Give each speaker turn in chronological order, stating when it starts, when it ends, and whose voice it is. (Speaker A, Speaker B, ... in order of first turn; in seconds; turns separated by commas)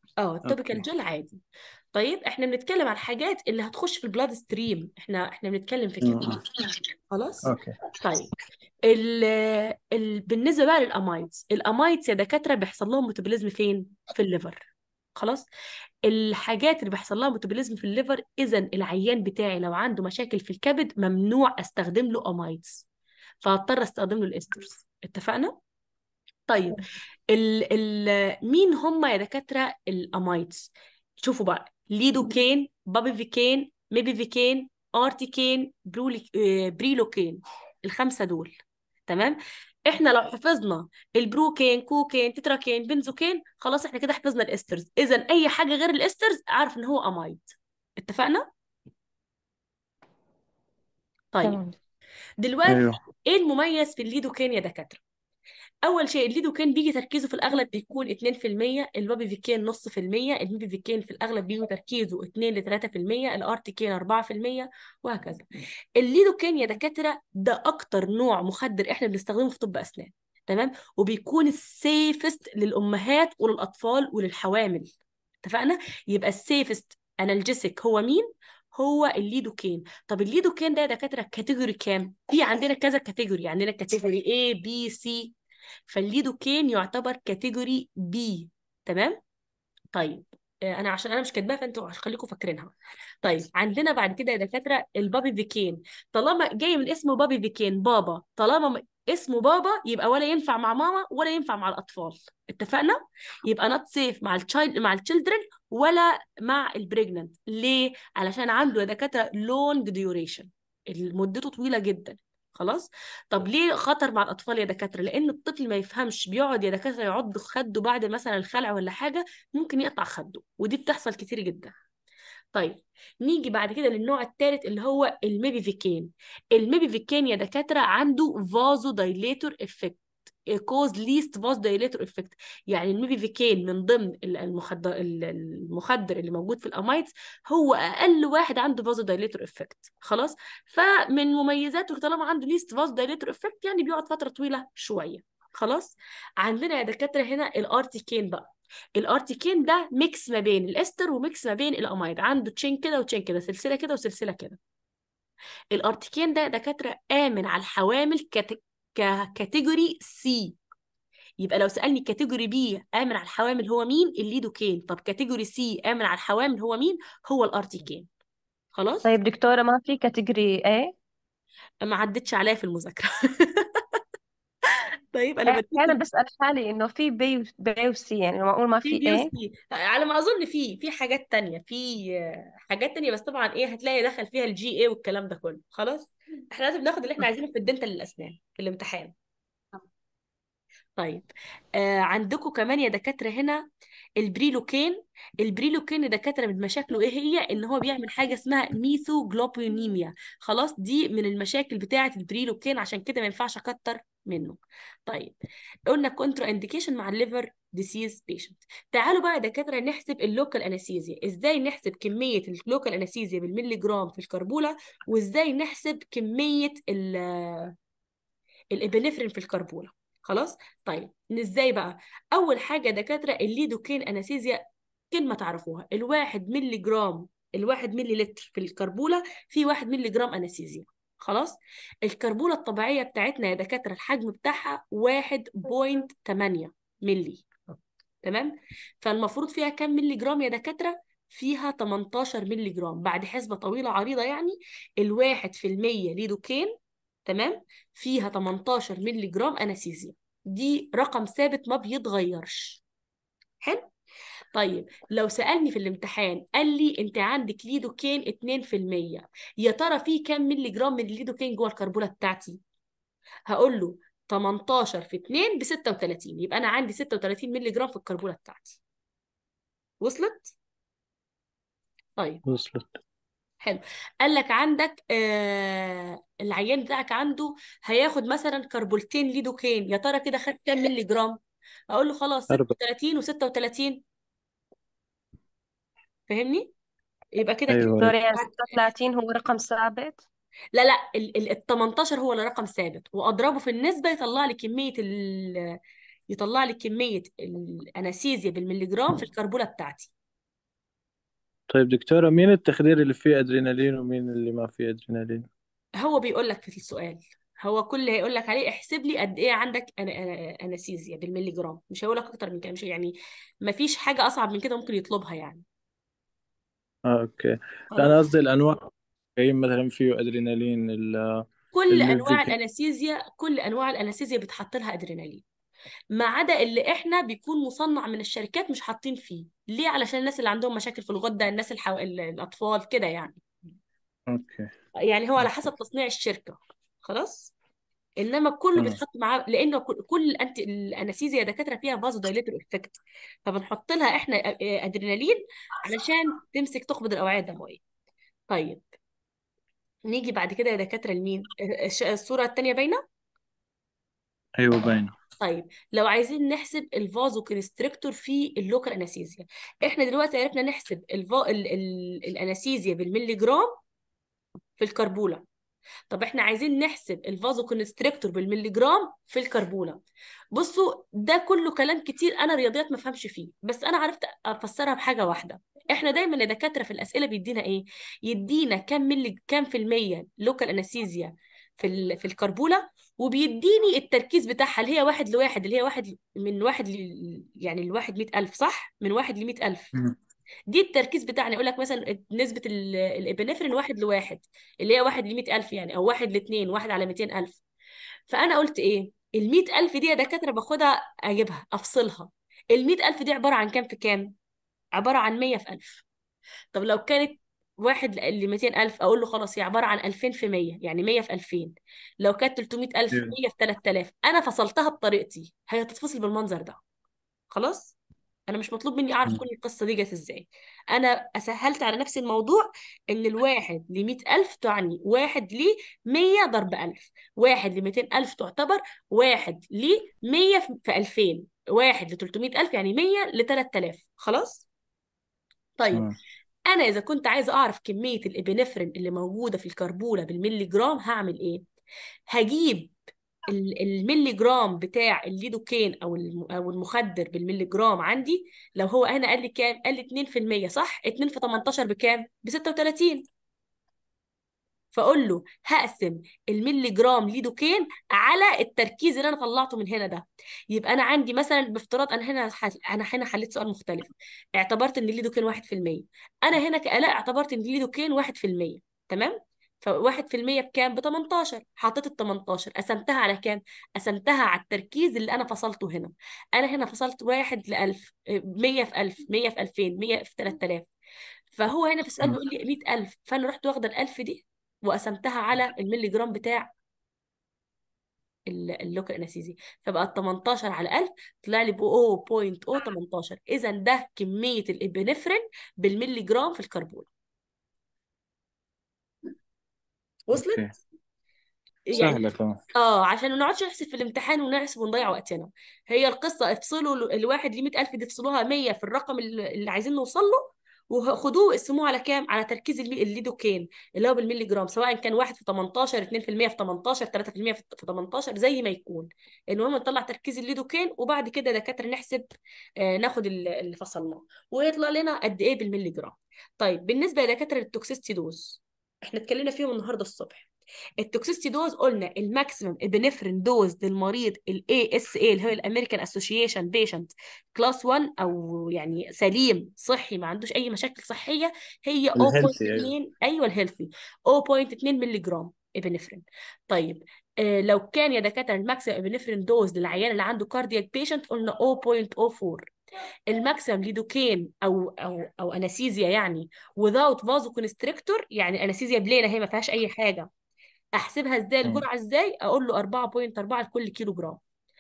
Speaker A: 0.2-1.4, Speaker B: 0.5-0.8, Speaker A: 1.9-6.3, Speaker B: 6.0-6.4, Speaker A: 7.1-8.3, Speaker B: 7.5-7.8, Speaker A: 8.9-15.5, Speaker A: 16.1-22.9, Speaker A: 23.4-25.6, Speaker A: 26.5-30.7, Speaker A: 31.2-38.6, Speaker A: 39.1-48.5, Speaker A: 51.3-51.6, Speaker C: 51.4-51.8, Speaker A: 52.4-55.0, Speaker B: 52.7-53.0, Speaker A: 55.8-65.5, Speaker A: 66.0-74.9, Speaker A: 75.4-85.3, Speaker A: 85.9-89.2, Speaker A: 89.9-121.7, Speaker A: 122.5-130.0, Speaker A: 130.5-154.6, Speaker A: 155.7-160.6, Speaker A: 161.4-168.1, Speaker A: 168.7-169.1, Speaker C: 169.1-170.9, Speaker A: 171.8-173.8, Speaker A: 175.1-176.0, Speaker C: 175.5-179.3, Speaker A: 178.8-189.1, Speaker A: 191.0-193.6, Speaker A: 194.2-205.4, Speaker A: 205.9-217.7, Speaker A: 218.7-246.7, Speaker A: 247.3-252.8, Speaker A: 253.6-253.9, Speaker A: 254.5-262.6, Speaker A: 263.5-268.8, Speaker A: 270.0-270.5, Speaker A: 272.2-272.4, Speaker B: 272.5-272.9, Speaker A: 273.6-281.4, Speaker A: 281.9-284.0, Speaker A: 286.3-286.7, Speaker A: 287.4-288.4, Speaker B: 287.7-288.1, Speaker C: 288.0-290.2, Speaker A: 290.7-295.8, Speaker A: 296.3-300.1, Speaker B: 301.7-305.5, Speaker A: 306.0-315.6, Speaker B: 317.1-318.8, Speaker A: 317.9-318.2, Speaker B: 319.4-322.5, Speaker A: 321.7-325.4, Speaker A: 326.1-333.4, Speaker B: 334.3-334.7, Speaker A: 335.0-337.5, Speaker B: 335.4-335.7, Speaker A: 338.2-347.8, Speaker A: 348.5-348.8, Speaker A: 350.1-353.0, Speaker B: 354.6-355.1, Speaker A: 355.4-363.7, Speaker A: 364.8-365.5, Speaker A: 366.1-389.9, Speaker A: 390.7-397.6, Speaker A: 398.3-404.3, Speaker A: 404.9-406.0, Speaker A: 406.7-416.8, Speaker A: 417.5-418.0, Speaker A: 418.5-434.7, Speaker A: 435.8-436.1, Speaker A: 436.7-441.6, Speaker A: 442.3-442.9, Speaker A: 443.5-453.2, Speaker A: 454.9-480.9, Speaker A: 481.5-486.7, Speaker A: 488.5-497.1, Speaker A: 500.3-500.6, Speaker B: 500.3-500.7, Speaker A: 501.9-522.3, Speaker B: 502.0-502.6, Speaker A: 522.8-530.5, Speaker A: 531.0-552.7, Speaker B: 542.2-542.9, Speaker A: 553.3-560.3, Speaker A: 561.0-564.4